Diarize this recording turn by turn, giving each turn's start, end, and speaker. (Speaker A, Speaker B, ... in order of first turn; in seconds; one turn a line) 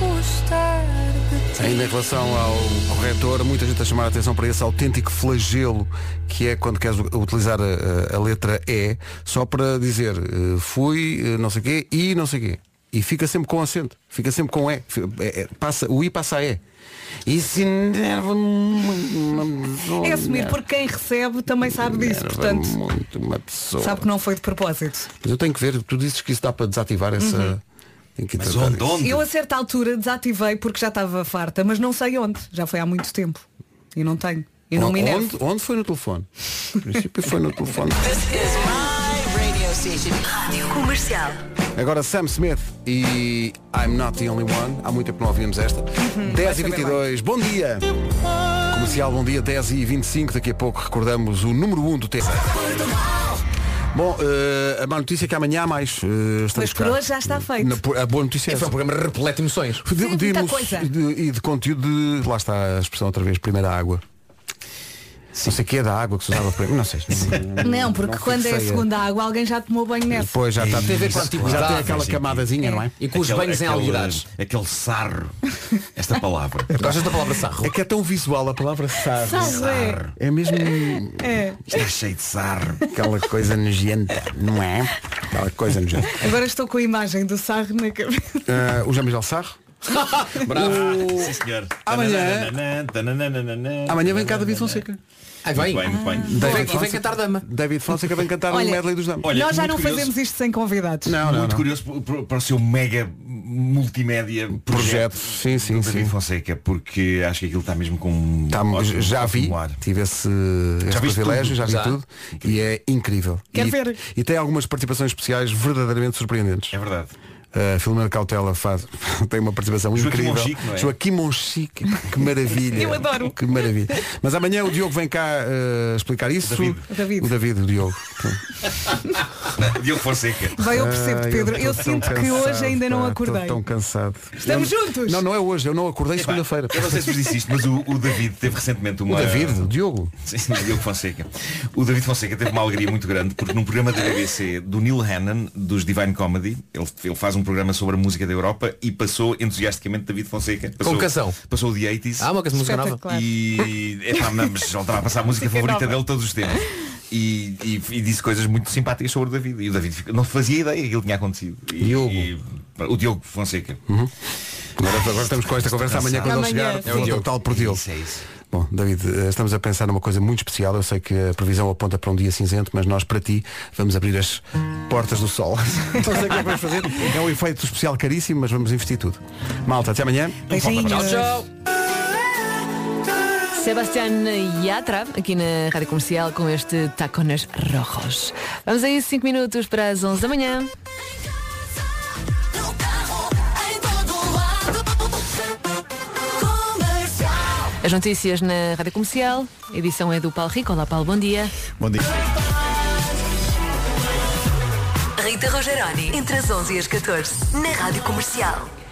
Speaker A: 1.5-16.6
Speaker A: 17.2-20.6
Speaker B: 20.0-22.7
Speaker A: 21.7-24.1
Speaker B: 23.8-25.1
Speaker A: 25.2-27.6
Speaker B: 27.2-27.5
Speaker A: 28.2-28.9
Speaker C: 28.4-29.3
Speaker B: 29.0-35.3
Speaker A: 34.7-38.2
Speaker D: 38.0-41.4
Speaker A: 41.7-47.9
Speaker B: 46.0-47.0
Speaker A: 48.7-52.6
Speaker A: 53.9-58.8
Speaker B: 56.5-57.8
Speaker E: 58.5-59.8
Speaker A: 59.8-64.0
Speaker B: 59.9-60.9
Speaker A: 65.4-68.9
Speaker B: 67.6-70.4
Speaker A: 70.1-72.9
Speaker C: 70.5-75.3
Speaker E: 70.7-72.0
Speaker B: 72.6-72.8
Speaker E: 73.0-74.2
Speaker C: 75.9-76.8
Speaker E: 76.8-77.7
Speaker A: 76.8-77.0
Speaker A: 77.6-81.5
Speaker B: 79.2-80.0
Speaker C: 79.3-80.2
Speaker B: 80.5-81.6
Speaker C: 81.7-82.9
Speaker A: 82.9-86.3
Speaker B: 86.1-88.5
Speaker A: 88.5-89.6
Speaker E: 89.9-91.1
Speaker C: 90.5-94.8
Speaker A: 90.5-92.5
Speaker A: 93.9-95.0
Speaker E: 95.4-97.5
Speaker C: 95.5-96.8
Speaker B: 95.9-96.7
Speaker A: 96.2-99.2
Speaker B: 98.5-101.2
Speaker C: 99.2-100.1
Speaker A: 101.0-101.6
Speaker C: 101.2-109.8
Speaker A: 104.5-106.1
Speaker A: 108.5-116.7
Speaker C: 110.9-111.8
Speaker E: 111.6-112.0
Speaker C: 112.4-112.7
Speaker B: 113.5-114.0
Speaker C: 116.7-117.1
Speaker A: 117.5-128.4
Speaker C: 119.9-120.9
Speaker B: 122.7-123.4
Speaker C: 126.4-126.9
Speaker B: 126.9-127.3
Speaker C: 129.6-130.6
Speaker B: 130.5-133.6
Speaker A: 130.7-137.1
Speaker B: 134.4-135.2
Speaker C: 136.2-152.3
Speaker A: 139.1-140.1
Speaker E: 150.8-151.4
Speaker E: 152.2-153.1
Speaker B: 152.6-153.2
Speaker C: 153.0-163.8
Speaker B: 155.5-156.0
Speaker A: 161.8-162.3
Speaker A: 164.8-167.8
Speaker C: 165.1-166.4
Speaker B: 166.2-167.2
Speaker E: 166.8-167.3
Speaker C: 167.3-168.2
Speaker A: 168.4-181.0
Speaker B: 180.5-181.4
Speaker C: 180.5-181.2
Speaker E: 180.9-181.5
Speaker F: 183.5-190.7
Speaker D: 193.4-194.8
Speaker D: 196.4-197.4
Speaker F: 197.8-201.5
Speaker D: 205.2-208.7